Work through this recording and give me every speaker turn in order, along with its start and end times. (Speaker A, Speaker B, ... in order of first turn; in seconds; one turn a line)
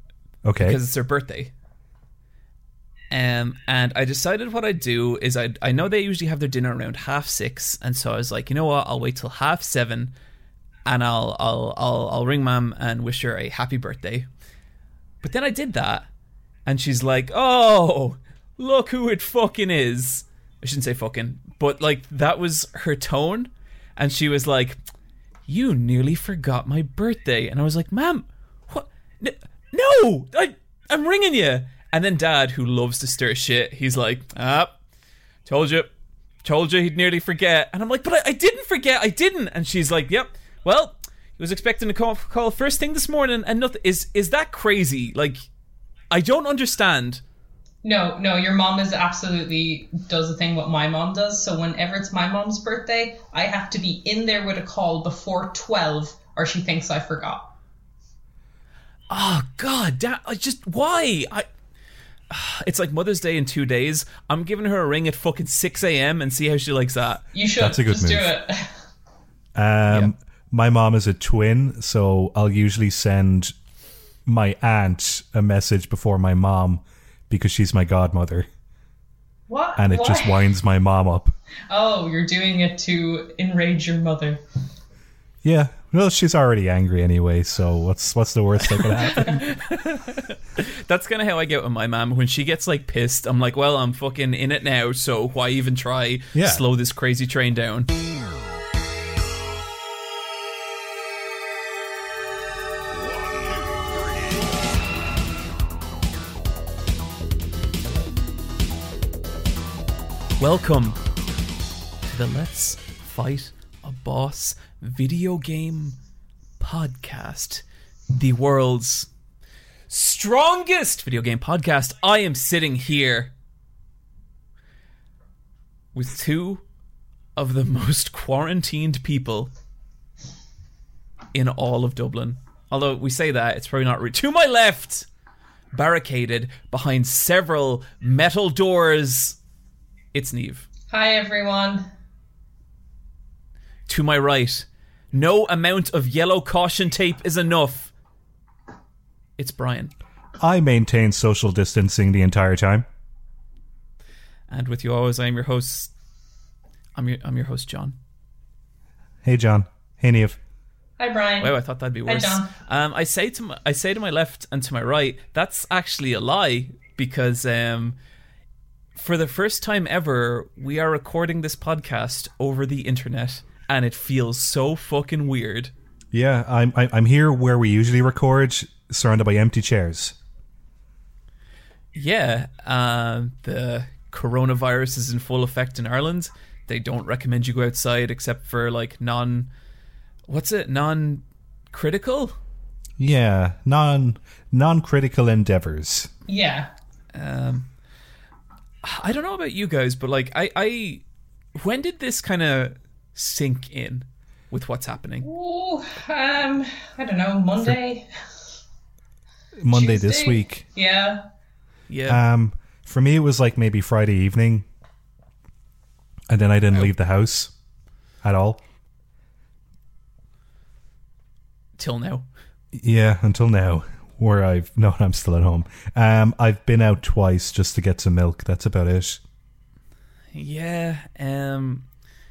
Speaker A: 0.4-0.8
Speaker B: 0.6-1.5
Speaker B: 3.1-10.1
Speaker B: 10.9-14.3
Speaker B: 15.2-16.1
Speaker B: 16.7-24.8
Speaker B: 25.5-34.8
Speaker B: 35.5-35.9
Speaker B: 36.4-45.5
Speaker B: 46.1-47.2
Speaker C: 47.8-57.5
Speaker B: 59.1-61.5
Speaker B: 62.3-67.2
Speaker C: 67.3-68.8
Speaker A: 67.6-68.3
Speaker A: 69.6-73.5
Speaker A: 74.2-78.5
Speaker C: 79.5-80.5
Speaker A: 79.8-81.3
Speaker C: 81.7-84.4
Speaker A: 85.4-89.4
Speaker B: 88.7-97.9
Speaker A: 96.3-96.6
Speaker B: 110.4-111.0
Speaker B: 112.1-116.0
Speaker B: 116.6-119.1
Speaker B: 119.9-123.3
Speaker B: 125.9-126.6
Speaker B: 127.3-129.5
Speaker B: 131.3-135.1
Speaker B: 135.7-139.4
Speaker B: 140.1-140.7
Speaker C: 140.9-141.9
Speaker B: 143.9-147.9
Speaker B: 149.4-149.9
Speaker A: 150.4-152.8
Speaker B: 154.5-155.9
Speaker B: 156.9-158.0
Speaker A: 159.2-160.4
Speaker C: 161.0-162.5
Speaker B: 161.4-168.0
Speaker B: 169.0-175.7
Speaker A: 176.1-180.2
Speaker B: 181.9-189.5
Speaker B: 190.3-192.4
Speaker A: 193.0-196.1
Speaker C: 196.3-196.7
Speaker B: 197.1-197.7
Speaker B: 198.8-201.0
Speaker B: 201.5-205.2
Speaker C: 205.2-208.1
Speaker A: 209.6-210.6
Speaker C: 209.7-211.2
Speaker B: 211.9-212.2
Speaker A: 212.1-214.7
Speaker A: 216.3-217.5
Speaker A: 218.2-218.6
Speaker B: 221.8-222.2
Speaker A: 222.7-229.2
Speaker B: 230.3-231.8